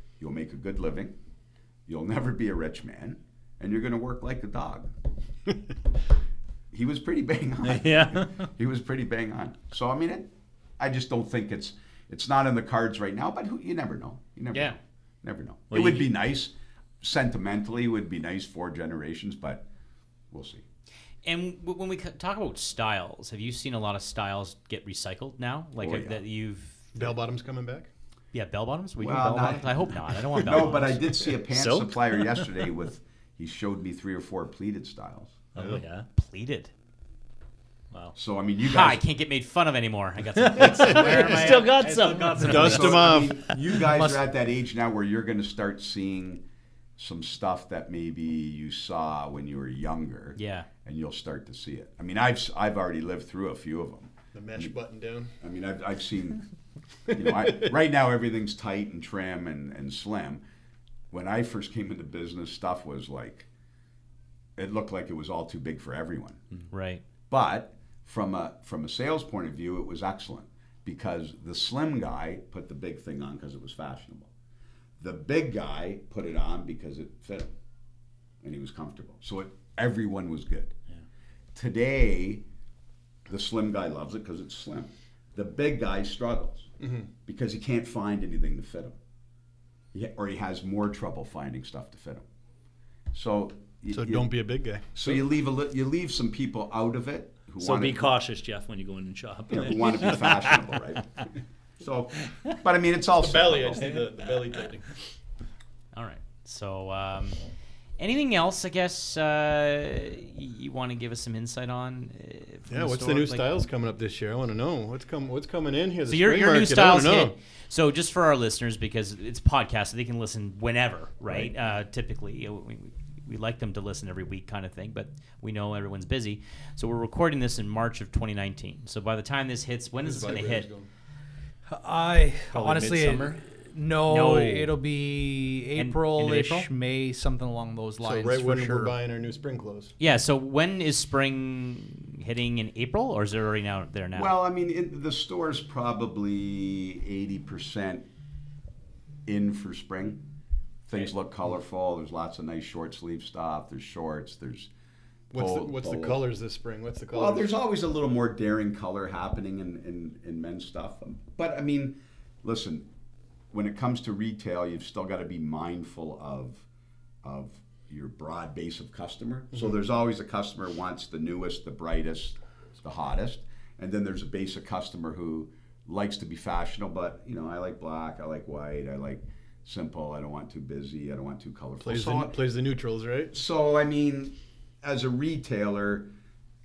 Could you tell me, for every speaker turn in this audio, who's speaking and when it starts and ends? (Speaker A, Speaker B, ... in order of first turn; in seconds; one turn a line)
Speaker A: 0.2-1.1
Speaker A: 1.9-4.9
Speaker A: 6.7-19.7
Speaker B: 7.6-8.5
Speaker B: 15.7-16.1
Speaker A: 20.3-20.6
Speaker C: 21.2-27.1
Speaker A: 25.8-26.2
Speaker D: 26.9-27.9
Speaker C: 28.3-31.1
Speaker A: 29.0-35.4
Speaker B: 31.5-32.5
Speaker B: 35.5-36.1
Speaker C: 36.1-36.7
Speaker A: 38.1-39.0
Speaker C: 38.6-42.9
Speaker B: 40.4-43.6
Speaker D: 42.4-43.4
Speaker A: 42.5-46.4
Speaker E: 43.9-44.2
Speaker A: 47.0-54.7
Speaker C: 50.4-50.7
Speaker D: 54.3-55.3
Speaker A: 55.4-56.4
Speaker D: 57.1-57.7
Speaker A: 57.1-60.4
Speaker A: 61.1-63.5
Speaker A: 64.6-66.4
Speaker C: 66.7-67.0
Speaker A: 67.3-74.3
Speaker A: 75.0-77.5
Speaker A: 78.4-80.7
Speaker A: 81.5-82.4
Speaker A: 83.3-86.7
Speaker D: 86.8-87.1
Speaker A: 87.3-89.0
Speaker A: 89.9-92.2
Speaker A: 93.1-94.3
Speaker D: 93.9-95.2
Speaker A: 95.0-98.1
Speaker B: 97.6-100.7
Speaker A: 99.5-103.9
Speaker D: 103.2-104.9
Speaker C: 105.9-107.4
Speaker C: 108.0-113.5
Speaker D: 112.7-117.4
Speaker C: 116.1-130.7
Speaker D: 130.0-130.9
Speaker E: 131.7-138.9
Speaker B: 132.5-133.4
Speaker C: 134.1-134.8
Speaker C: 135.8-136.7
Speaker D: 138.0-139.9
Speaker C: 140.0-144.3
Speaker A: 144.1-148.1
Speaker A: 149.3-150.2
Speaker A: 150.9-154.7
Speaker D: 155.3-157.5
Speaker A: 155.3-156.2
Speaker A: 157.1-162.9
Speaker A: 163.5-166.7
Speaker A: 167.2-182.3
Speaker D: 181.8-183.3
Speaker A: 183.3-186.1